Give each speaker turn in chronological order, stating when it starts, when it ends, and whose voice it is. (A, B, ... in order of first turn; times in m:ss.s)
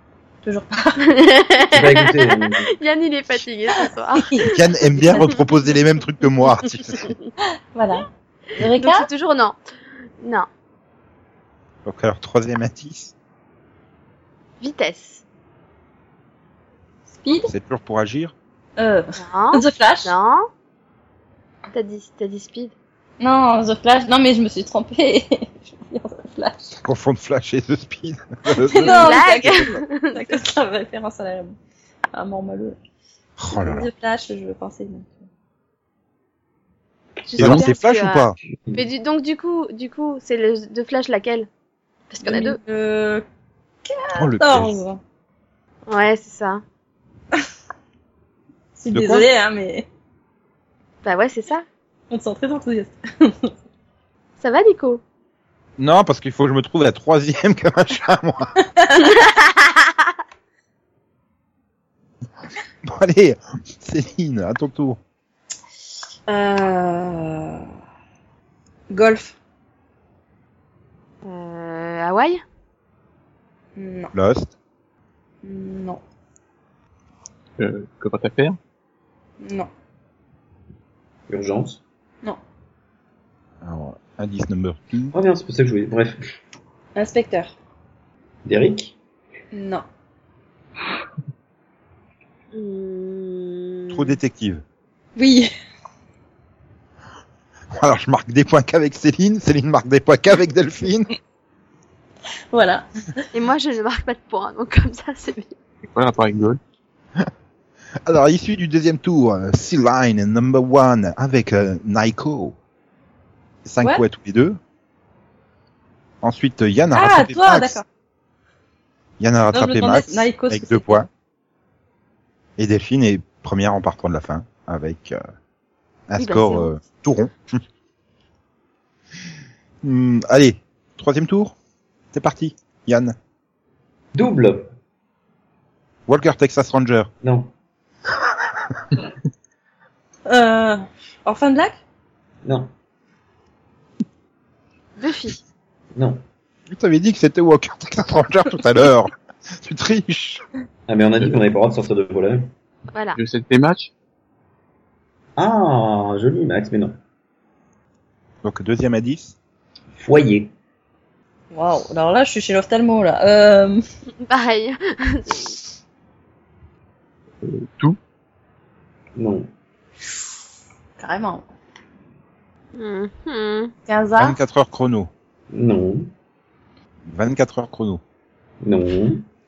0:00.4-0:01.0 A
0:01.0-0:04.3 B
0:01.7-0:02.8 C
0:04.2-0:05.4 A
0:04.4-0:07.1 D
0:07.7-0:08.1 A
0:08.6-0:09.1 A
0:08.8-0:09.6 B
0:10.2-0:10.5 B
0:11.8-0:13.1 D
0:14.6-0:15.2 B
0:17.2-0:17.5 A
0:17.4-0:18.3 D
0:18.8-0:20.1 A
0:19.2-0:20.5 B
0:21.7-0:22.7 B
0:23.2-0:26.8 A
0:26.8-0:29.3 D
0:28.5-0:31.6 A
0:28.8-0:30.3 B
0:32.1-0:32.8 A
0:33.4-0:33.9 D
0:33.5-0:35.3 A
0:37.2-0:41.5 B
0:37.4-0:38.4 D
0:37.4-0:37.6 E
0:38.6-0:38.8 C
0:42.1-0:42.6 B
0:42.2-0:43.2 A
0:43.8-0:45.0 A
0:44.1-0:44.8 D
0:45.9-0:46.6 B
0:48.8-0:49.8 A
0:48.9-0:49.3 D
0:51.0-0:51.6 B
0:52.1-0:53.5 A
0:54.4-0:55.0 B
0:55.8-0:58.5 D
0:58.8-0:59.3 A
1:02.8-1:05.0 D
1:06.3-1:07.7 A
1:08.9-1:09.4 A
1:11.2-1:12.4 B
1:13.8-1:14.1 A
1:14.1-1:14.5 D
1:15.4-1:16.0 A
1:17.6-1:18.6 E
1:19.4-1:19.7 A
1:21.3-1:21.8 C
1:23.6-1:25.1 D
1:25.1-1:26.2 C
1:26.9-1:27.5 A
1:28.4-1:29.0 C
1:29.5-1:29.8 A
1:32.5-1:34.2 B
1:33.9-1:34.6 D
1:35.2-1:35.5 A
1:37.7-1:41.1 D
1:42.5-1:42.9 A
1:43.3-1:45.5 B
1:45.9-1:46.6 E
1:48.0-1:52.6 D
1:53.6-1:54.6 D
1:56.2-1:57.8 D
1:56.9-1:57.8 A
1:59.2-2:01.1 D
1:59.5-2:01.0 A
2:02.6-2:05.2 D
2:06.1-2:07.6 D
2:06.2-2:06.7 B
2:09.8-2:11.6 D
2:12.1-2:13.1 D
2:14.1-2:14.7 C
2:16.1-2:17.1 D
2:17.2-2:17.5 C
2:20.3-2:21.8 A
2:25.0-2:25.4 B
2:26.7-2:30.4 D
2:30.9-2:32.4 C
2:32.9-2:33.2 B
2:33.2-2:33.9 E
2:35.4-2:37.0 C
2:38.4-2:39.4 D
2:39.9-2:40.5 C
2:41.5-2:43.8 A
2:44.2-2:45.5 B
2:47.4-2:48.0 E
2:49.2-2:49.5 C
2:51.0-2:51.4 A
2:52.7-2:53.7 B
2:53.9-2:54.4 A
2:54.2-2:55.1 D
2:55.5-2:56.1 C
2:57.1-2:58.0 D
2:58.6-2:59.2 C